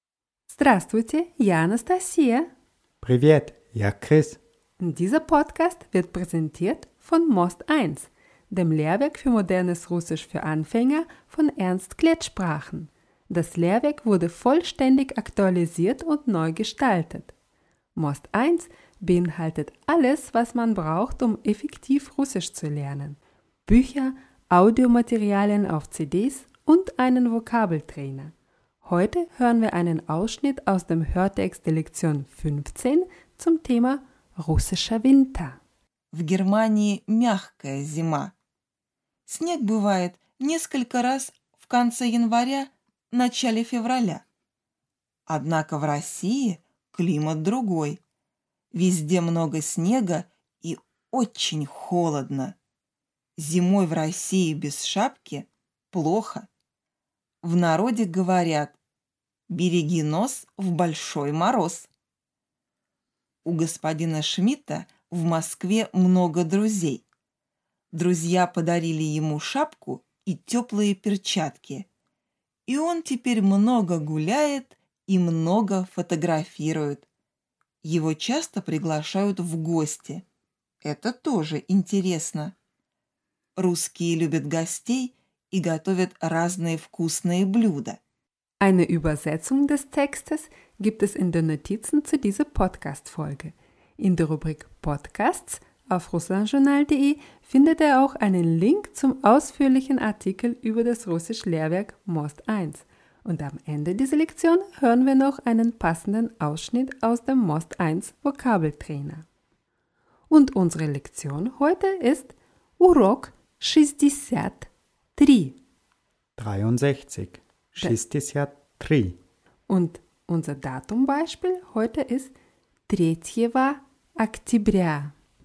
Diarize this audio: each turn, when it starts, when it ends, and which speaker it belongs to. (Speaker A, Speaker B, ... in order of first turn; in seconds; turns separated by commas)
Speaker A: 0.5-2.5, Speaker B: 3.0-4.4, Speaker A: 4.8-17.3, Speaker A: 18.0-28.3, Speaker A: 28.8-35.6, Speaker C: 36.1-38.3, Speaker C: 39.3-44.2, Speaker C: 45.3-48.0, Speaker C: 48.7-52.5, Speaker C: 53.4-56.5, Speaker C: 57.4-58.8, Speaker C: 59.5-61.9, Speaker C: 63.5-67.0, Speaker C: 67.9-71.8, Speaker C: 72.7-77.0, Speaker C: 77.8-80.2, Speaker C: 80.8-82.5, Speaker C: 83.6-88.0, Speaker A: 88.6-109.2, Speaker A: 110.3-115.6, Speaker B: 116.4-119.2, Speaker A: 119.7-122.3, Speaker A: 122.9-125.1